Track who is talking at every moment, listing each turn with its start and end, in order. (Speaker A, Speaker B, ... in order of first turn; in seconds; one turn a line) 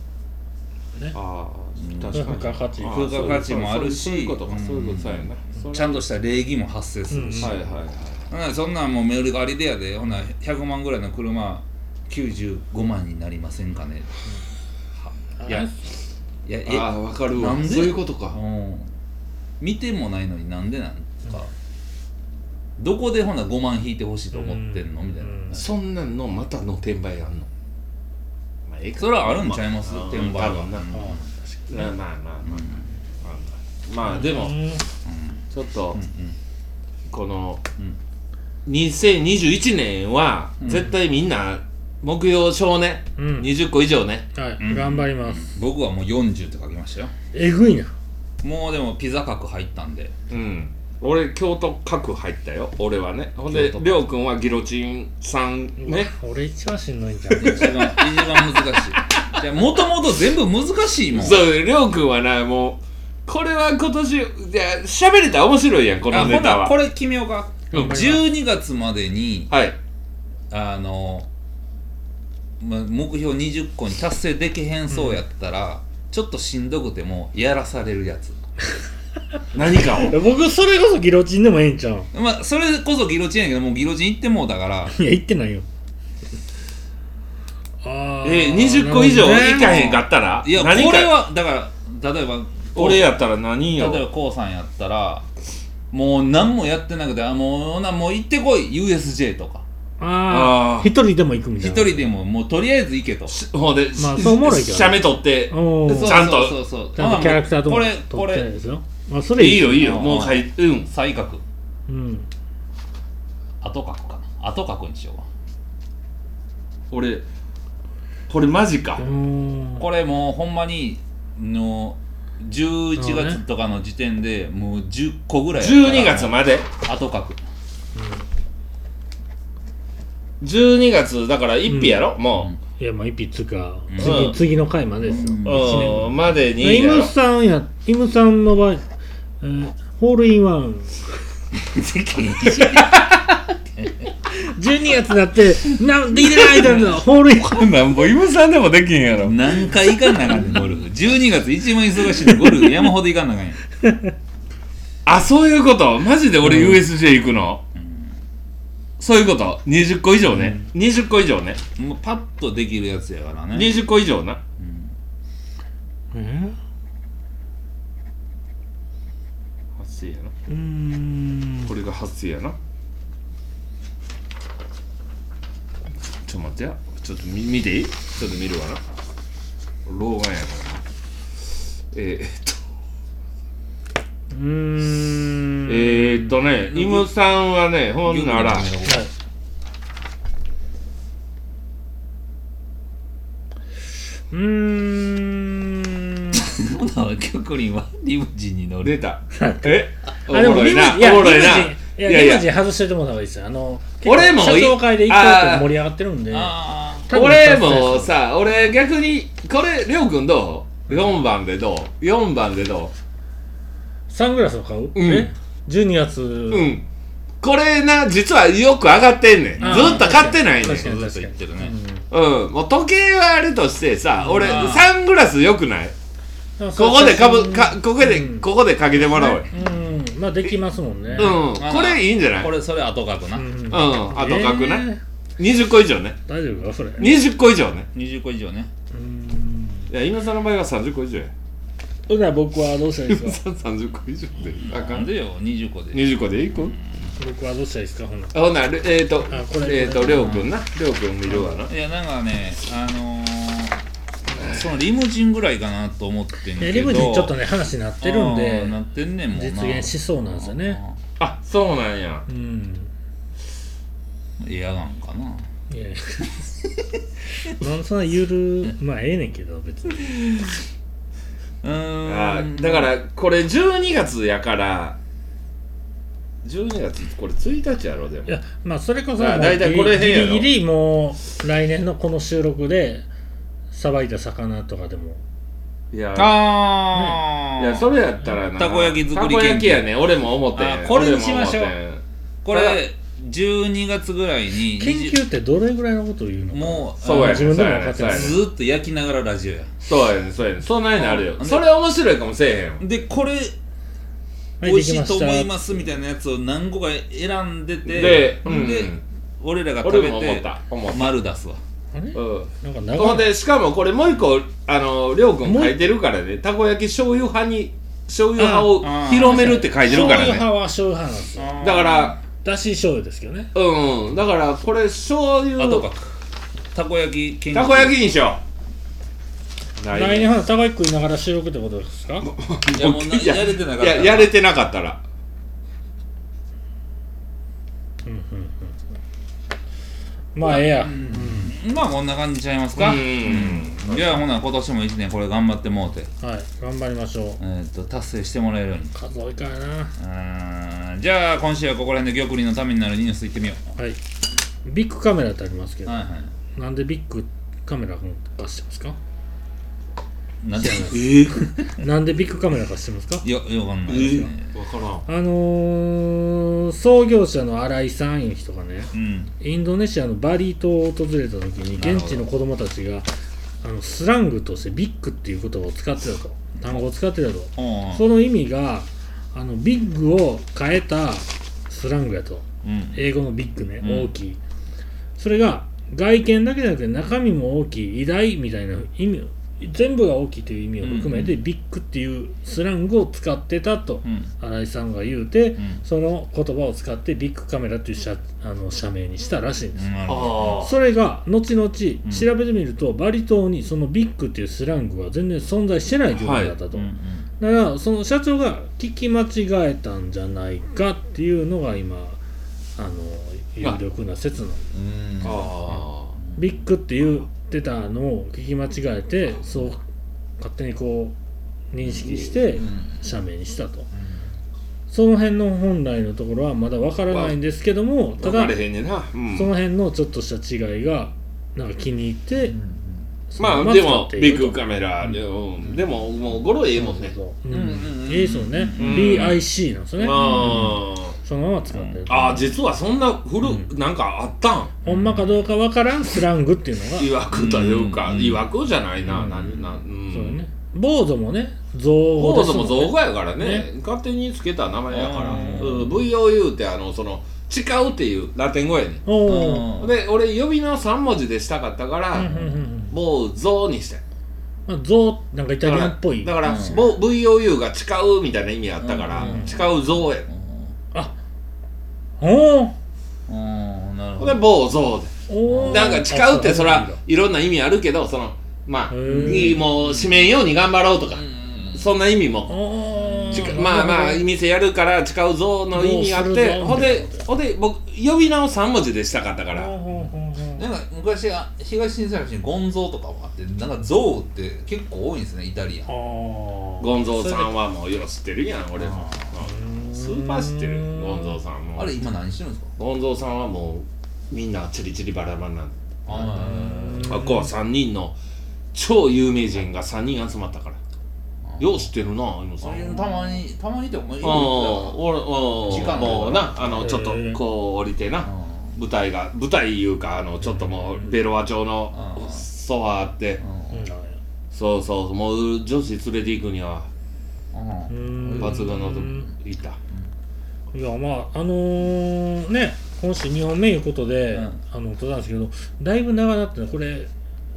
Speaker A: 1.1-6.0
Speaker B: 1.8-7.6
Speaker C: 2.1-3.4
Speaker C: 7.1-7.5
Speaker A: 7.4-8.3
Speaker B: 8.3-14.1
Speaker B: 15.1-15.7
Speaker C: 15.4-15.7
Speaker B: 16.5-18.9
Speaker A: 16.6-18.4
Speaker B: 19.6-21.5
Speaker B: 22.8-25.7
Speaker C: 24.3-25.6
Speaker A: 25.5-27.5
Speaker A: 28.7-30.9
Speaker B: 29.0-31.2
Speaker C: 30.9-31.6
Speaker A: 31.7-32.7
Speaker B: 32.5-32.9
Speaker A: 33.2-34.7
Speaker C: 34.0-34.9
Speaker B: 35.1-35.4
Speaker A: 35.5-36.0
Speaker B: 36.0-36.4
Speaker A: 37.1-37.6
Speaker A: 38.7-44.3
Speaker B: 40.6-40.9
Speaker C: 43.2-43.5
Speaker C: 44.4-45.5
Speaker B: 44.6-47.1
Speaker C: 47.3-47.9
Speaker B: 48.4-50.1
Speaker A: 50.3-56.1
Speaker B: 53.5-54.0
Speaker C: 55.8-57.9
Speaker A: 57.3-59.2
Speaker B: 57.4-61.5
Speaker A: 61.1-66.8
Speaker B: 66.1-69.5
Speaker C: 67.7-68.2
Speaker A: 69.5-69.8
Speaker B: 70.5-71.3
Speaker B: 72.6-78.4
Speaker C: 74.9-75.2
Speaker A: 79.5-80.2
Speaker C: 79.8-82.1
Speaker B: 82.1-85.0
Speaker C: 84.9-85.7
Speaker C: 87.8-89.8
Speaker A: 88.2-91.2
Speaker B: 89.5-93.1
Speaker A: 92.8-94.1
Speaker B: 93.8-95.3
Speaker B: 95.9-99.6
Speaker C: 100.0-102.1
Speaker A: 100.3-100.9
Speaker B: 101.6-103.4
Speaker A: 103.3-106.6
Speaker C: 104.0-110.3
Speaker B: 105.9-108.5
Speaker A: 109.4-110.9
Speaker B: 109.8-111.4
Speaker C: 111.9-112.3
Speaker B: 113.6-115.2
Speaker A: 116.9-117.3
Speaker A: 118.3-119.1
Speaker C: 119.0-119.8
Speaker B: 119.8-127.4
Speaker C: 123.0-123.4
Speaker A: 125.6-126.7
Speaker C: 128.0-128.2
Speaker A: 130.4-132.5
Speaker C: 131.7-132.2
Speaker C: 132.8-138.8
Speaker B: 133.9-134.4
Speaker A: 134.0-134.4
Speaker B: 135.0-136.2
Speaker A: 135.4-137.1
Speaker C: 139.4-141.2
Speaker B: 141.6-143.0
Speaker A: 142.6-143.1
Speaker B: 143.8-144.1
Speaker C: 144.3-147.8
Speaker B: 146.4-147.0
Speaker A: 147.5-149.8
Speaker B: 149.2-153.6
Speaker C: 152.3-152.7
Speaker C: 153.8-154.1
Speaker A: 155.1-157.6
Speaker C: 156.4-156.8
Speaker B: 157.8-158.1
Speaker A: 159.0-161.6
Speaker B: 160.3-160.6
Speaker B: 161.8-163.8
Speaker A: 163.5-164.4
Speaker B: 164.6-164.9
Speaker C: 166.1-166.6
Speaker A: 169.8-170.3
Speaker C: 170.5-171.7
Speaker A: 171.7-172.6
Speaker A: 176.1-178.8
Speaker A: 179.8-180.8
Speaker A: 181.9-182.7
Speaker C: 184.3-186.3
Speaker A: 185.7-188.8
Speaker B: 186.6-187.1
Speaker B: 188.1-189.1
Speaker C: 188.8-189.1
Speaker C: 194.3-196.4
Speaker B: 196.3-199.0
Speaker A: 198.8-202.5
Speaker C: 199.3-208.1
Speaker A: 204.0-205.8
Speaker B: 206.3-207.1
Speaker A: 207.1-212.9
Speaker C: 214.1-216.8
Speaker A: 214.9-215.3
Speaker A: 216.5-216.8
Speaker A: 217.4-221.0
Speaker B: 219.6-221.7
Speaker C: 219.6-222.1
Speaker A: 222.1-225.9
Speaker C: 224.2-224.7
Speaker B: 224.3-224.9
Speaker C: 226.6-228.5
Speaker A: 226.8-229.5
Speaker C: 229.0-231.4
Speaker B: 231.1-233.6
Speaker A: 231.2-232.5
Speaker C: 233.3-235.0
Speaker A: 233.7-236.2
Speaker C: 236.3-237.2
Speaker A: 237.0-237.9
Speaker B: 237.9-238.7
Speaker C: 238.9-239.9
Speaker A: 239.9-241.3
Speaker C: 242.1-243.4
Speaker A: 243.1-245.1
Speaker B: 244.7-246.8
Speaker A: 245.9-246.8
Speaker C: 247.2-248.4
Speaker A: 248.3-251.7
Speaker C: 249.3-250.4
Speaker B: 250.0-250.5
Speaker B: 251.4-253.8
Speaker B: 254.4-257.3
Speaker C: 256.6-258.8
Speaker B: 258.0-261.0
Speaker C: 259.3-260.8
Speaker A: 261.2-262.2
Speaker C: 262.3-262.9
Speaker B: 264.4-265.4
Speaker C: 265.7-266.5
Speaker C: 267.4-270.4
Speaker B: 271.6-272.9
Speaker A: 272.1-275.0
Speaker A: 276.4-278.3
Speaker C: 278.3-283.1
Speaker A: 279.2-280.5
Speaker C: 283.7-285.2
Speaker A: 285.9-286.8
Speaker B: 286.1-287.9
Speaker C: 286.9-287.3
Speaker A: 287.6-292.8
Speaker B: 288.6-289.9
Speaker B: 290.5-291.7
Speaker B: 292.4-295.2
Speaker C: 294.8-298.4
Speaker B: 296.5-299.7
Speaker A: 297.0-298.4
Speaker A: 299.8-302.8
Speaker B: 301.0-301.7
Speaker B: 302.8-303.6
Speaker C: 304.6-305.5
Speaker B: 304.6-311.6
Speaker A: 307.9-309.0
Speaker A: 309.8-311.1
Speaker C: 311.9-313.4
Speaker A: 312.1-320.5
Speaker C: 315.4-315.9
Speaker C: 318.4-321.6
Speaker B: 318.8-320.3
Speaker B: 321.4-322.2
Speaker A: 321.6-322.2
Speaker C: 322.4-323.5
Speaker A: 323.5-325.9
Speaker B: 325.6-326.1
Speaker B: 326.7-328.0
Speaker A: 327.5-328.4
Speaker A: 329.8-330.3
Speaker C: 329.9-332.3
Speaker A: 332.2-335.0
Speaker B: 332.7-334.4
Speaker C: 338.0-338.8
Speaker C: 340.3-341.6
Speaker B: 340.4-346.1
Speaker A: 342.8-344.2
Speaker C: 346.2-347.4
Speaker B: 347.4-348.9
Speaker C: 348.9-349.9
Speaker B: 350.0-353.6
Speaker C: 354.6-356.0
Speaker B: 355.9-356.3
Speaker C: 356.6-359.0
Speaker B: 360.4-361.4
Speaker C: 360.5-363.2
Speaker A: 360.9-361.4
Speaker B: 363.2-364.5
Speaker A: 363.9-365.1
Speaker C: 363.9-364.3
Speaker C: 365.1-373.1
Speaker B: 368.9-369.3
Speaker B: 371.8-372.2
Speaker C: 373.6-384.4
Speaker B: 377.6-378.1
Speaker B: 382.6-383.0
Speaker B: 383.8-384.1
Speaker C: 385.2-399.9
Speaker B: 390.8-391.4
Speaker B: 394.0-394.3
Speaker B: 399.8-400.6
Speaker A: 400.1-400.8
Speaker C: 400.6-412.2
Speaker A: 406.2-406.6
Speaker B: 406.7-407.3
Speaker C: 412.8-414.6
Speaker B: 414.7-416.5
Speaker A: 415.2-416.2
Speaker C: 416.4-419.8
Speaker C: 420.4-421.1
Speaker C: 421.7-423.9
Speaker A: 422.1-422.3
Speaker B: 422.6-423.0
Speaker C: 424.9-428.6
Speaker A: 427.1-427.4
Speaker A: 428.2-429.5
Speaker C: 429.3-432.6
Speaker B: 432.4-433.0
Speaker C: 433.3-434.6
Speaker A: 433.4-437.2
Speaker C: 436.8-440.7
Speaker B: 437.5-439.4
Speaker A: 438.8-439.4
Speaker A: 440.0-441.2
Speaker B: 440.1-440.9
Speaker C: 441.2-442.5
Speaker A: 442.1-444.7
Speaker C: 443.4-443.7
Speaker C: 444.8-447.1
Speaker B: 444.9-445.5
Speaker A: 447.0-450.4
Speaker B: 447.3-448.5
Speaker B: 449.1-449.4
Speaker C: 449.1-453.7
Speaker A: 452.2-459.0
Speaker B: 454.9-456.0
Speaker C: 455.1-455.8
Speaker C: 459.1-459.7
Speaker B: 459.2-459.9
Speaker A: 459.8-462.3
Speaker C: 462.1-463.0
Speaker B: 462.2-462.5
Speaker A: 462.9-464.0
Speaker C: 464.7-466.5
Speaker A: 465.6-470.3
Speaker B: 466.4-466.9
Speaker B: 468.8-470.7
Speaker C: 469.2-469.6
Speaker C: 472.2-472.8
Speaker B: 473.3-474.4
Speaker A: 474.2-475.1
Speaker C: 475.3-477.0
Speaker B: 475.5-476.0
Speaker A: 475.6-482.6
Speaker C: 478.9-479.6
Speaker B: 479.1-480.3
Speaker B: 481.1-481.9
Speaker C: 482.5-484.2
Speaker B: 483.0-483.7
Speaker A: 483.3-489.7
Speaker C: 485.7-487.3
Speaker C: 489.5-490.6
Speaker B: 490.0-495.9
Speaker C: 495.9-497.5
Speaker A: 496.8-501.9
Speaker B: 498.8-499.3
Speaker C: 499.4-501.4
Speaker B: 501.8-502.7
Speaker A: 502.8-506.3
Speaker B: 506.1-507.3
Speaker C: 506.1-507.5
Speaker A: 507.0-508.1
Speaker A: 508.7-510.8
Speaker B: 511.5-511.9
Speaker A: 511.6-513.1
Speaker B: 512.6-515.0
Speaker A: 514.2-523.4
Speaker B: 515.6-516.9
Speaker C: 516.2-517.4
Speaker B: 518.3-518.8
Speaker B: 521.9-522.5
Speaker B: 523.4-523.8
Speaker C: 523.7-524.2
Speaker A: 524.5-526.9
Speaker B: 527.5-528.7
Speaker C: 527.9-529.3
Speaker A: 528.3-529.8
Speaker C: 530.7-537.1